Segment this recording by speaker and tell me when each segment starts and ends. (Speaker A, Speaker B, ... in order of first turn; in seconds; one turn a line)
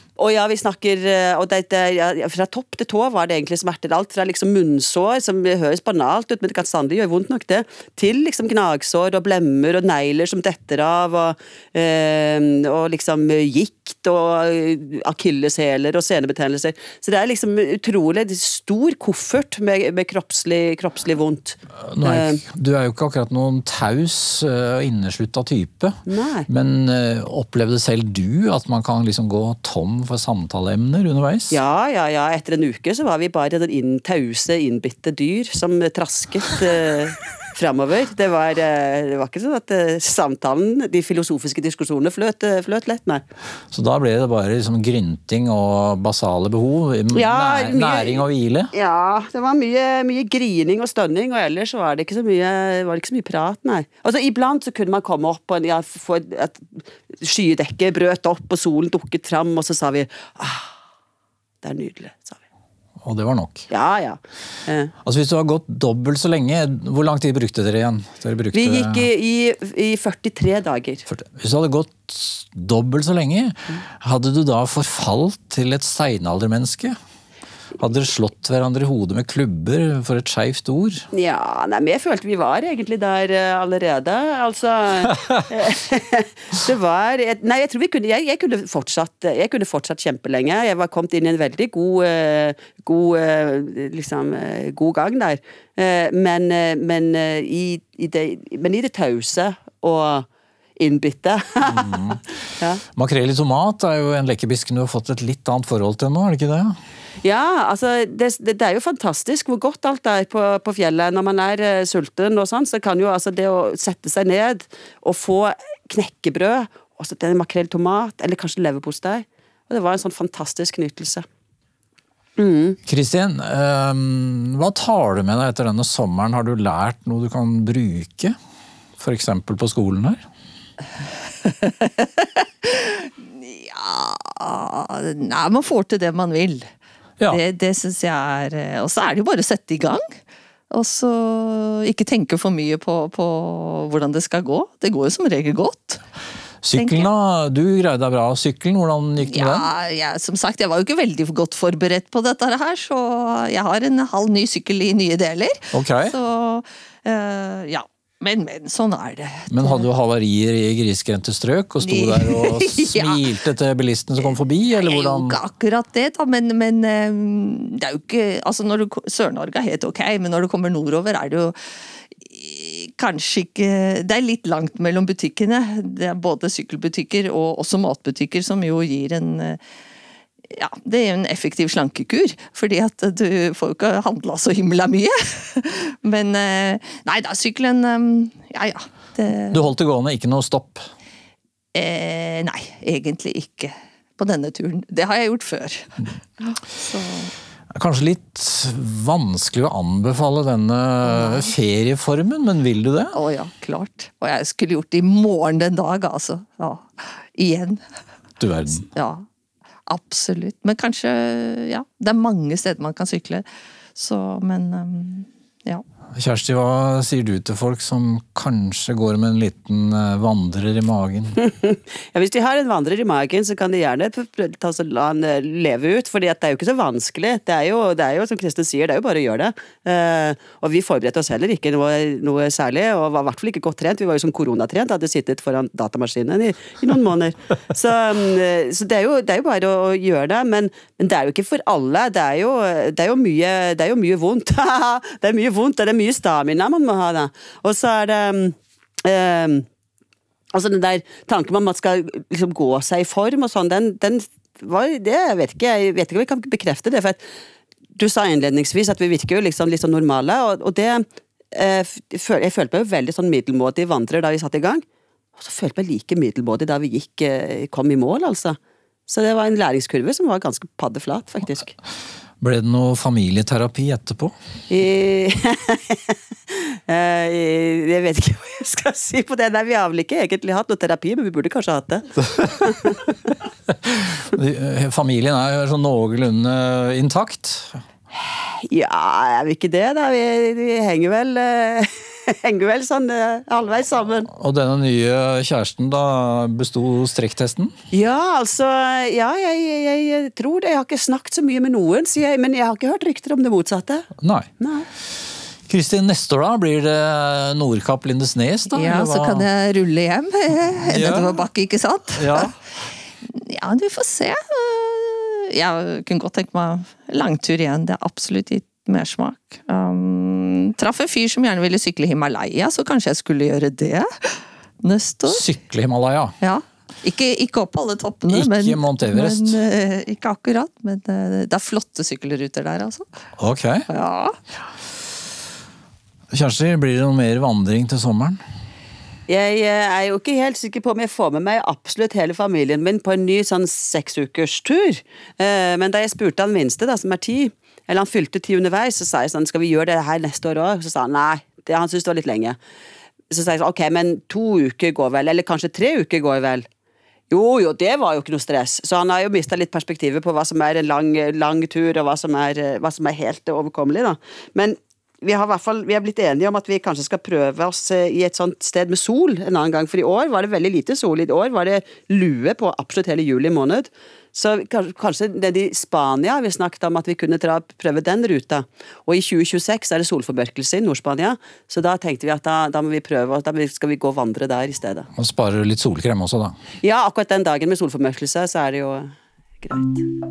Speaker A: 0.2-22.4
Speaker B: 21.9-26.0
Speaker A: 26.1-26.5
Speaker B: 26.5-31.6
Speaker A: 31.5-43.2
Speaker B: 43.7-48.7
Speaker A: 47.1-60.7
Speaker A: 61.6-62.4
Speaker B: 63.0-63.7
Speaker A: 63.7-64.9
Speaker B: 65.0-69.1
Speaker A: 68.5-71.0
Speaker B: 71.1-76.9
Speaker B: 77.8-81.1
Speaker A: 81.1-100.3
Speaker A: 100.8-102.8
Speaker B: 101.7-102.2
Speaker B: 102.9-106.8
Speaker A: 107.2-121.2
Speaker A: 122.4-122.8
Speaker B: 122.8-128.3
Speaker B: 129.0-130.2
Speaker C: 131.4-136.7
Speaker C: 137.3-140.2
Speaker C: 140.7-146.0
Speaker B: 146.6-149.7
Speaker C: 146.7-147.1
Speaker C: 149.2-159.8
Speaker B: 155.7-156.1
Speaker B: 159.5-165.4
Speaker C: 161.8-163.2
Speaker C: 164.2-171.6
Speaker C: 172.2-179.6
Speaker C: 180.5-189.6
Speaker B: 189.5-190.8
Speaker C: 191.7-197.3
Speaker B: 197.7-203.2
Speaker C: 201.0-201.5
Speaker C: 203.1-207.8
Speaker B: 208.4-208.9
Speaker C: 208.7-209.2
Speaker C: 209.9-215.8
Speaker B: 216.2-221.4
Speaker A: 221.4-249.6
Speaker A: 250.5-257.2
Speaker A: 257.9-264.8
Speaker A: 265.4-268.6
Speaker A: 269.1-271.7
Speaker B: 272.4-274.3
Speaker A: 274.7-283.0
Speaker B: 283.7-287.8
Speaker A: 288.2-294.3
Speaker B: 294.3-297.7
Speaker A: 297.9-304.1
Speaker B: 304.2-304.5
Speaker A: 304.6-304.9
Speaker B: 305.7-309.4
Speaker C: 308.7-312.5
Speaker B: 310.8-311.4
Speaker B: 312.1-312.5
Speaker C: 313.2-325.4
Speaker B: 325.3-326.3
Speaker C: 326.4-333.1
Speaker B: 328.3-329.6
Speaker B: 333.4-333.9
Speaker C: 333.9-334.4
Speaker B: 336.3-338.4
Speaker A: 339.3-352.6
Speaker A: 353.3-356.7
Speaker A: 357.3-385.1
Speaker B: 385.1-386.6
Speaker A: 386.8-389.1
Speaker A: 389.6-390.1